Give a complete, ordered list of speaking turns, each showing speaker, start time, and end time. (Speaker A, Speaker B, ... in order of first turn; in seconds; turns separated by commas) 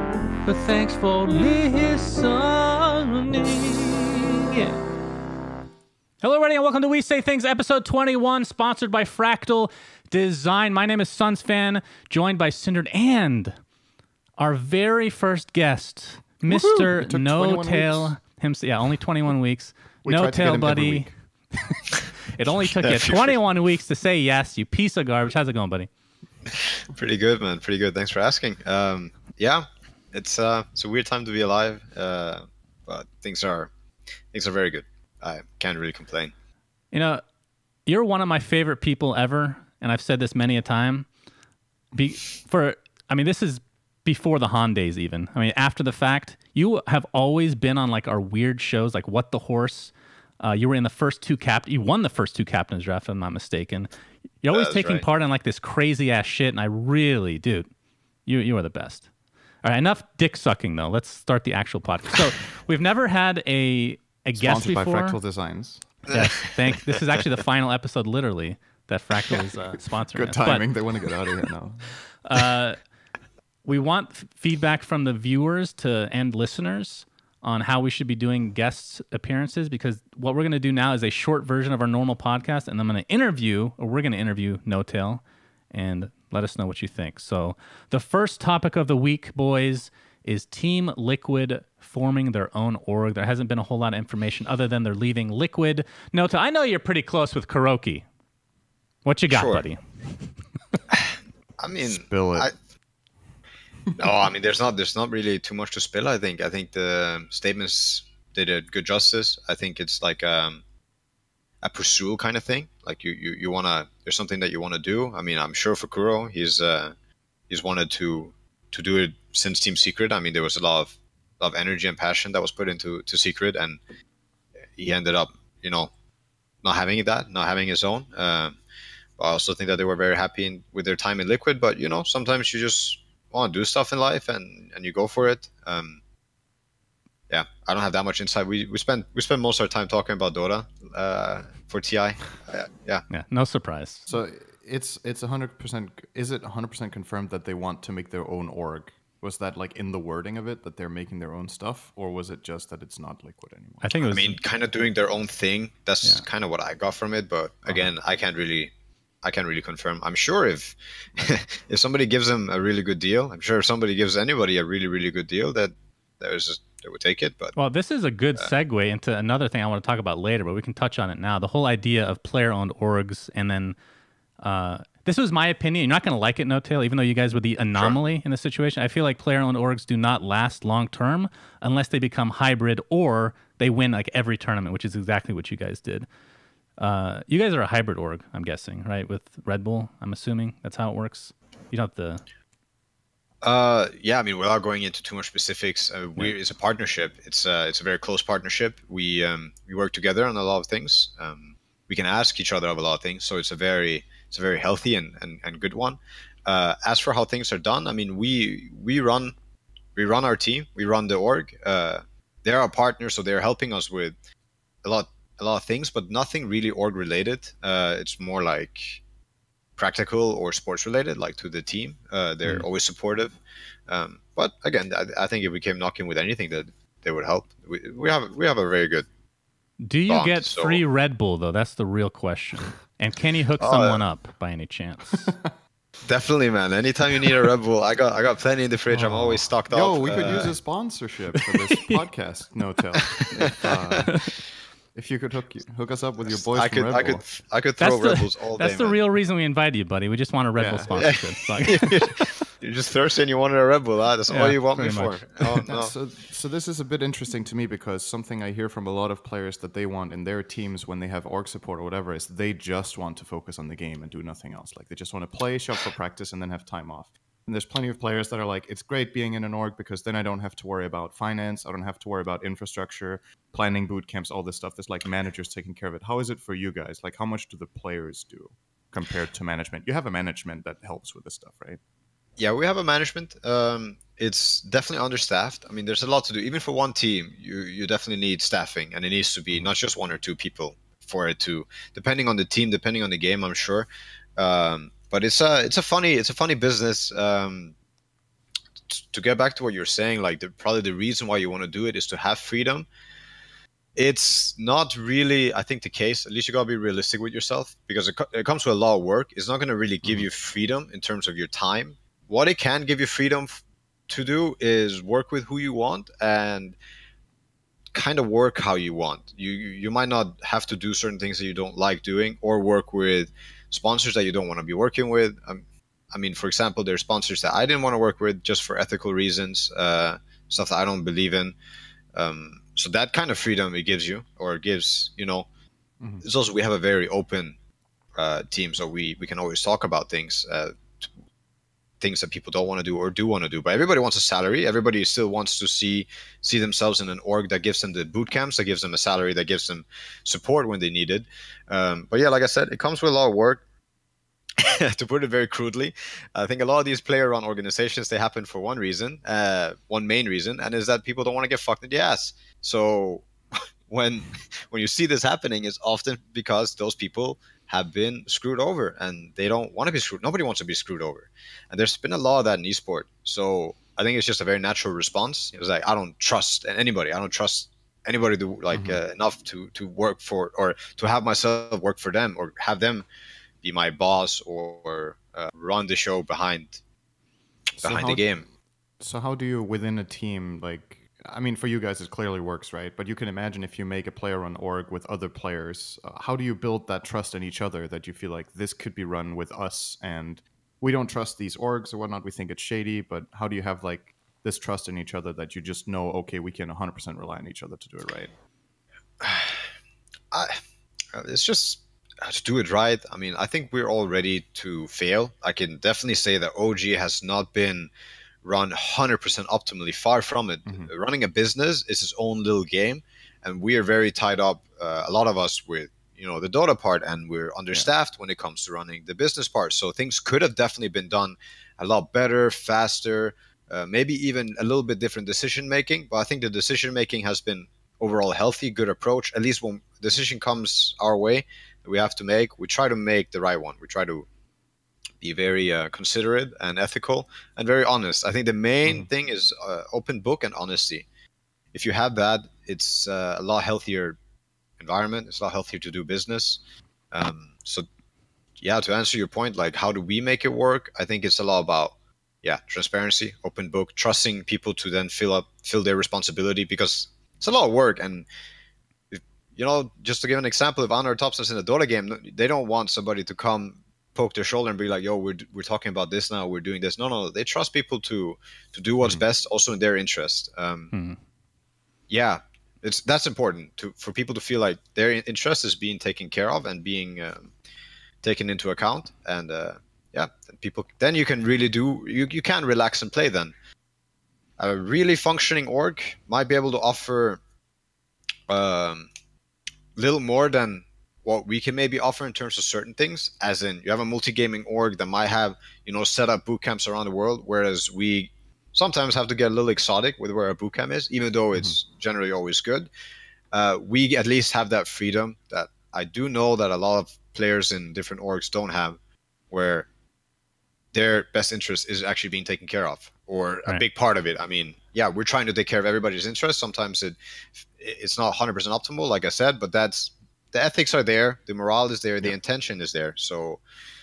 Speaker A: 0.4-4.8, Speaker A: 6.2-13.5, Speaker A: 14.4-25.9, Speaker B: 16.5-18.1, Speaker B: 20.0-21.1, Speaker C: 22.8-23.4, Speaker C: 26.5-33.7, Speaker C: 34.3-36.3, Speaker A: 36.9-37.2, Speaker A: 37.9-41.1, Speaker A: 41.9-53.9, Speaker A: 54.4-57.7, Speaker C: 54.5-55.0, Speaker A: 58.2-59.1, Speaker A: 59.6-65.2, Speaker B: 64.3-65.8, Speaker C: 66.1-67.2, Speaker A: 66.1-70.7, Speaker B: 70.1-72.0, Speaker A: 72.2-72.8, Speaker A: 73.6-98.0, Speaker A: 99.0-99.8, Speaker C: 99.3-99.6, Speaker C: 100.9-102.5, Speaker B: 101.8-102.5, Speaker C: 104.0-110.6, Speaker C: 111.6-116.9, Speaker C: 117.5-123.8, Speaker C: 124.8-125.9, Speaker C: 126.6-128.6, Speaker C: 129.2-136.0, Speaker C: 137.3-143.1, Speaker A: 143.1-144.1, Speaker B: 144.1-154.0, Speaker A: 153.8-154.4, Speaker C: 154.0-158.7, Speaker C: 159.2-167.6, Speaker A: 167.6-173.8, Speaker A: 174.4-186.1, Speaker A: 186.8-192.2, Speaker C: 193.4-209.3, Speaker C: 209.9-214.1, Speaker C: 214.8-219.0, Speaker C: 219.8-223.3, Speaker C: 223.9-229.1, Speaker A: 229.8-235.3, Speaker C: 230.1-230.8, Speaker C: 233.6-234.0, Speaker B: 235.2-235.5, Speaker C: 236.1-240.5, Speaker B: 238.9-244.1, Speaker A: 241.5-242.0, Speaker C: 243.1-244.1, Speaker A: 244.0-244.3, Speaker B: 244.9-247.2, Speaker C: 246.3-249.0, Speaker A: 247.8-252.0, Speaker B: 250.6-251.0, Speaker C: 250.9-255.9, Speaker A: 254.3-255.2, Speaker B: 255.6-281.8, Speaker C: 282.4-297.7, Speaker C: 298.9-302.9, Speaker C: 303.9-316.8, Speaker C: 317.9-331.6, Speaker C: 332.1-335.5, Speaker C: 336.2-337.6, Speaker C: 338.1-341.0, Speaker C: 342.0-353.6, Speaker C: 354.6-363.3, Speaker C: 363.9-383.1, Speaker B: 378.7-379.0, Speaker C: 383.6-386.8, Speaker B: 387.8-388.2, Speaker C: 387.8-388.4, Speaker B: 389.0-408.3, Speaker C: 409.2-409.7, Speaker C: 410.3-410.6, Speaker C: 411.1-417.9, Speaker C: 418.4-444.3, Speaker C: 445.2-451.1, Speaker C: 451.7-454.2, Speaker C: 454.8-456.6, Speaker C: 457.1-457.9, Speaker C: 458.6-468.3, Speaker C: 469.1-480.9, Speaker A: 480.9-481.2, Speaker C: 482.1-487.5, Speaker C: 488.2-493.5, Speaker C: 494.6-497.4, Speaker C: 498.5-499.1, Speaker C: 499.9-512.9, Speaker B: 511.5-511.8, Speaker C: 513.5-519.0, Speaker C: 519.5-519.9, Speaker C: 520.9-533.6